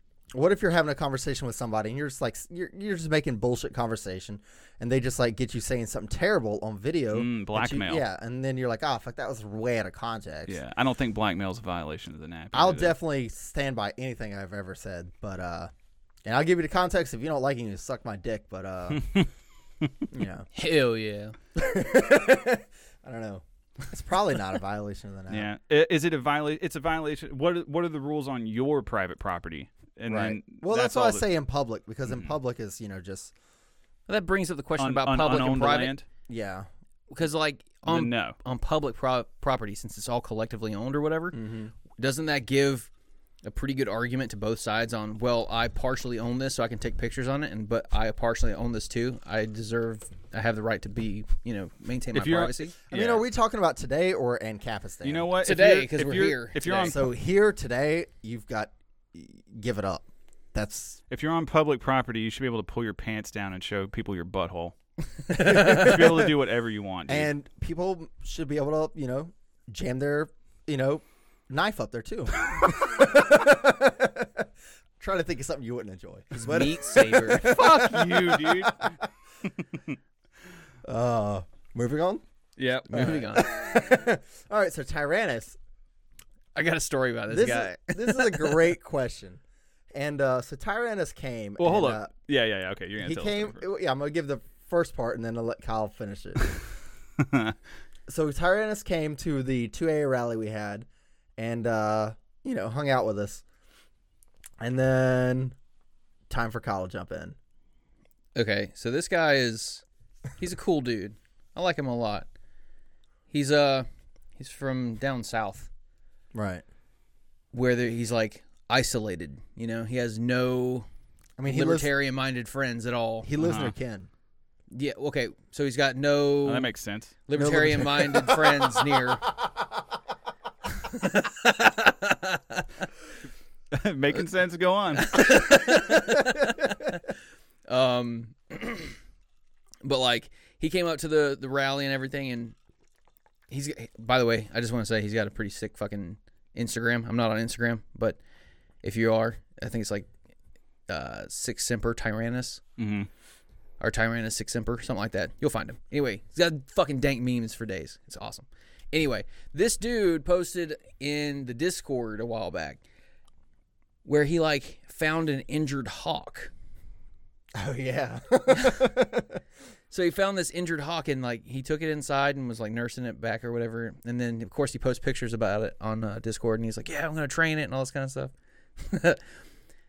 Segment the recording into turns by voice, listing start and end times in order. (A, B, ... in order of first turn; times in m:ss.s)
0:00.3-0:10.6 A
0:07.1-0:08.0 B
0:10.5-0:13.0 B
0:12.5-0:15.7 A
0:16.2-0:19.2 A
0:20.1-0:20.5 A
0:20.5-0:21.4 C
0:21.5-0:25.5 A
0:25.3-0:31.3 B
0:30.1-0:33.3 A
0:32.1-0:32.4 B
0:34.1-0:35.9 C
0:34.8-0:36.0 B
0:36.3-0:36.7 A
0:37.1-0:41.4 C
0:37.8-0:38.4 B
0:41.3-0:41.7 A
0:42.0-0:42.9 C
0:43.4-0:52.8 C
0:52.1-0:53.2 B
0:52.9-0:55.3 A
0:55.0-0:57.0 B
0:55.4-0:57.0 C
0:56.8-1:01.0 A
1:01.1-1:04.8 B
1:05.3-1:06.0 C
1:05.3-1:07.3 B
1:05.5-1:06.1 A
1:07.1-1:14.5 A
1:15.0-1:19.1 A
1:16.3-1:17.5 C
1:17.4-1:18.9 B
1:20.8-1:22.2 A
1:22.6-1:23.2 B
1:22.9-1:23.5 C
1:23.0-1:25.6 A
1:26.5-1:28.6 C
1:27.3-1:29.4 A
1:29.9-1:32.1 A
1:31.6-1:33.6 B
1:33.0-1:36.5 A
1:37.2-1:37.5 B
1:38.1-1:43.4 A
1:44.6-1:45.5 A
1:46.3-1:47.4 A
1:48.4-1:49.8 C
1:50.4-1:52.3 C
1:53.3-1:55.7 C
1:56.3-1:56.6 A
1:57.5-2:00.9 C
2:01.4-2:01.9 A
2:01.5-2:03.3 C
2:03.2-2:04.1 A
2:03.4-2:03.7 B
2:04.7-2:06.7 C
2:06.4-2:07.1 B
2:07.3-2:09.2 C
2:07.3-2:09.0 A
2:10.8-2:12.6 C
2:13.7-2:15.1 B
2:15.0-2:17.0 C
2:17.7-2:18.9 C
2:19.8-2:22.5 C
2:23.5-2:28.2 C
2:28.8-2:30.1 C
2:30.9-2:32.6 C
2:32.8-2:33.1 B
2:33.8-2:42.8 C
2:44.0-2:46.5 C
2:47.5-2:49.4 A
2:48.5-2:48.9 C
2:49.9-2:59.2 C